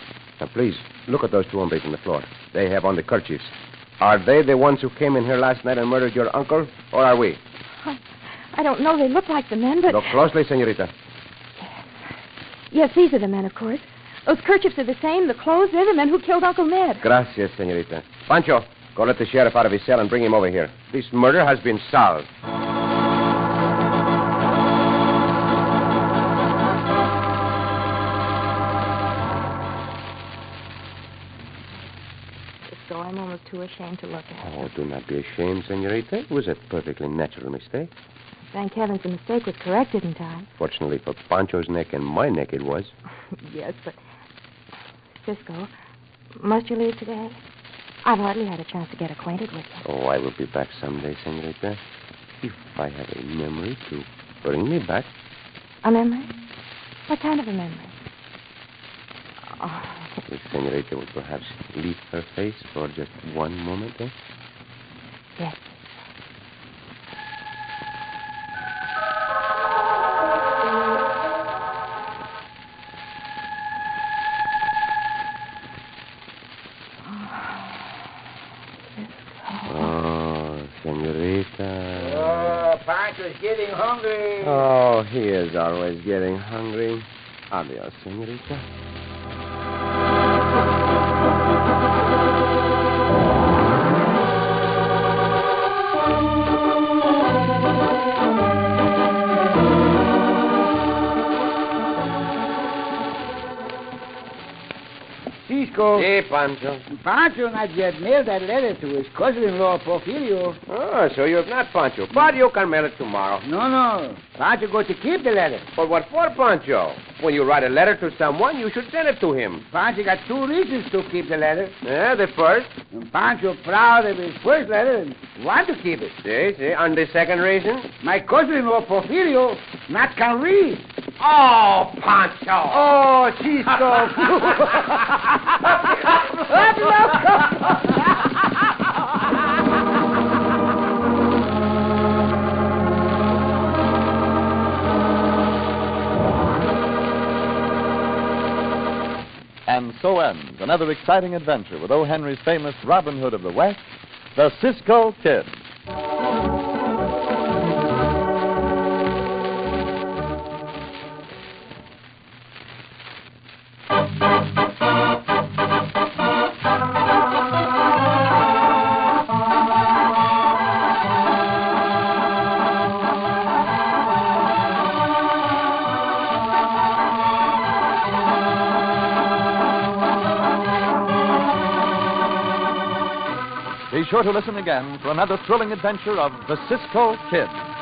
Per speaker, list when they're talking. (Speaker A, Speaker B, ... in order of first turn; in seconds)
Speaker A: 0.4-7.4, 9.9-10.9, 17.0-22.3, 34.4-37.9, 40.6-42.9, 49.8-51.8, 52.4-55.1, 60.2-64.1, 79.7-82.6, 84.4-88.6, 105.9-106.8, 110.7-113.5, 115.8-119.6, 121.8-122.7, 126.2-127.9, 131.2-134.9
Speaker B: 8.5-10.2, 11.6-12.0, 12.7-17.1, 32.7-34.7, 38.5-40.5, 43.4-44.0, 45.2-45.7, 46.4-47.4, 48.0-49.8, 55.8-56.4, 57.1-58.0, 59.5-60.0, 65.4-65.7, 77.1-77.8, 79.0-79.9
Speaker C: 81.9-84.7, 105.4-106.1, 106.9-110.6, 113.4-115.7, 119.7-121.7, 122.9-126.2, 128.0-130.9, 132.7-138.1
Speaker D: 149.7-153.8, 154.3-155.6, 183.9-187.6